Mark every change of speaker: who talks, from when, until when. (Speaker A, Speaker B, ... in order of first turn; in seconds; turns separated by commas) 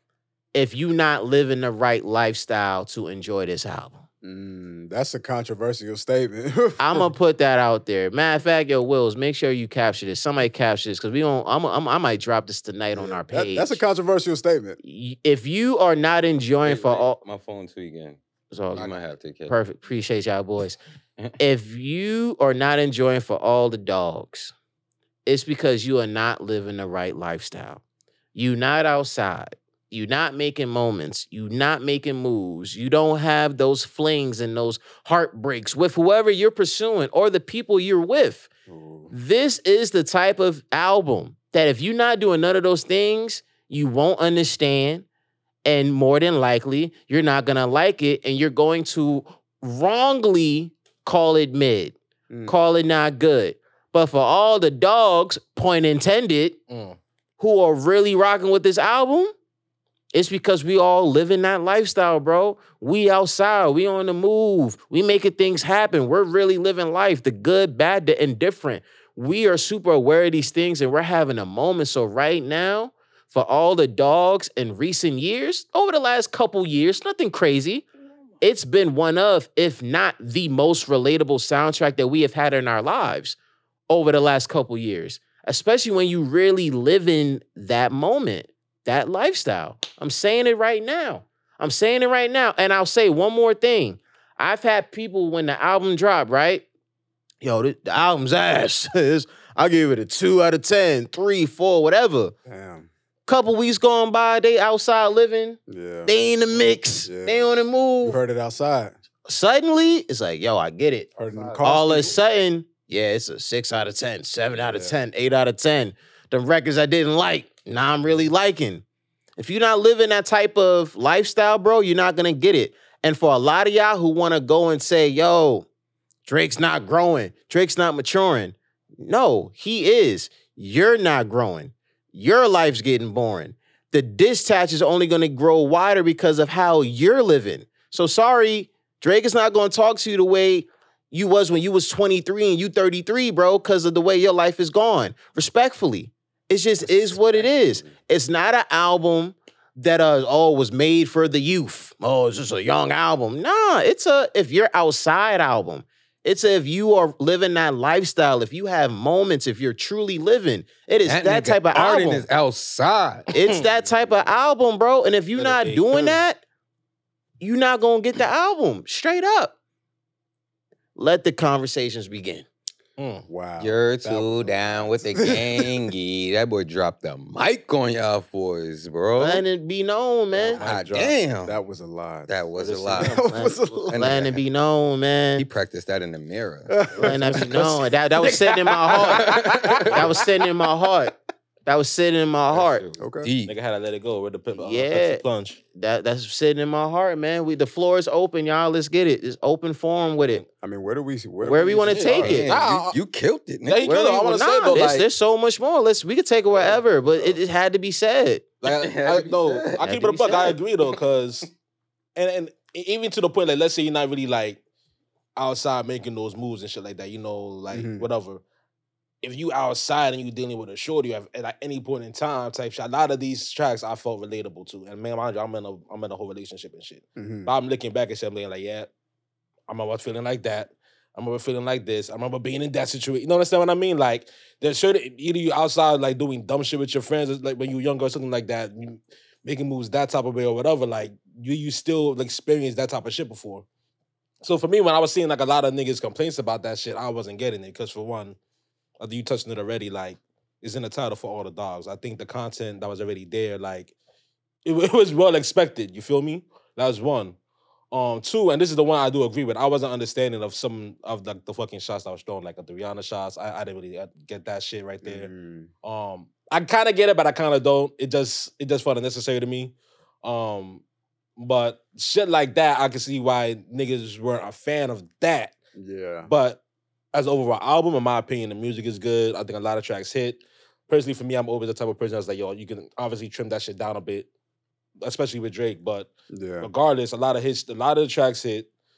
Speaker A: 0.5-4.0, Speaker B: 4.2-7.1, Speaker A: 6.8-13.8, Speaker B: 12.9-14.8, Speaker A: 14.8-17.2, Speaker C: 16.6-18.2, Speaker A: 18.5-18.9, Speaker C: 18.7-19.6, Speaker A: 19.5-20.8, Speaker A: 21.4-24.5, Speaker A: 25.3-27.8, Speaker A: 28.3-38.5, Speaker B: 38.7-39.1, Speaker A: 39.1-45.1, Speaker A: 45.6-52.0, Speaker A: 52.5-56.6, Speaker D: 56.7-57.0, Speaker A: 57.4-59.3, Speaker A: 60.1-77.9, Speaker A: 78.4-83.4, Speaker A: 83.9-96.7, Speaker A: 97.4-102.3, Speaker B: 102.5-102.9, Speaker A: 103.3-108.2, Speaker B: 105.7-106.1, Speaker B: 107.0-107.5, Speaker B: 108.0-108.9, Speaker A: 109.3-118.8, Speaker B: 111.2-112.2, Speaker D: 111.3-111.6, Speaker B: 114.6-114.9, Speaker A: 119.4-125.7, Speaker A: 126.3-162.3, Speaker B: 146.8-147.9, Speaker C: 161.1-163.3, Speaker A: 163.3-166.4, Speaker D: 163.3-163.7, Speaker B: 163.7-164.1, Speaker D: 165.4-166.2, Speaker A: 167.4-169.6, Speaker A: 170.9-172.5, Speaker D: 173.0-173.3, Speaker B: 173.3-175.8, Speaker C: 173.6-179.4, Speaker A: 179.2-180.6, Speaker B: 180.4-182.4, Speaker D: 180.6-180.9, Speaker C: 180.6-181.6, Speaker C: 182.3-183.2, Speaker D: 182.6-183.3, Speaker B: 182.9-184.0, Speaker A: 183.2-185.5, Speaker C: 183.9-184.4, Speaker C: 185.4-186.7, Speaker B: 186.7-187.9, Speaker A: 187.0-189.3, Speaker D: 188.2-190.1, Speaker C: 189.1-190.1, Speaker A: 189.9-192.8, Speaker C: 192.5-193.6, Speaker B: 193.0-193.3, Speaker D: 193.5-195.6, Speaker A: 194.5-200.4, Speaker D: 200.2-200.5, Speaker B: 200.6-202.4, Speaker A: 201.4-202.5, Speaker D: 201.8-203.0, Speaker C: 202.2-203.9, Speaker D: 203.7-205.1, Speaker A: 203.8-208.5, Speaker D: 206.5-207.2, Speaker D: 208.6-211.5, Speaker C: 208.6-209.8, Speaker A: 209.8-210.6, Speaker D: 212.2-214.6, Speaker D: 215.4-218.4, Speaker B: 217.7-218.1, Speaker D: 219.2-228.9, Speaker B: 227.2-227.5, Speaker D: 229.7-243.7, Speaker D: 244.4-248.4, Speaker D: 249.0-253.9, Speaker D: 254.7-257.4, Speaker D: 257.9-265.3, Speaker B: 265.0-265.7, Speaker D: 265.8-270.8, Speaker D: 271.4-275.6, Speaker B: 275.8-276.3, Speaker D: 276.3-276.6, Speaker D: 277.1-284.3, Speaker D: 285.0-286.1, Speaker B: 286.3-286.7, Speaker D: 286.6-288.7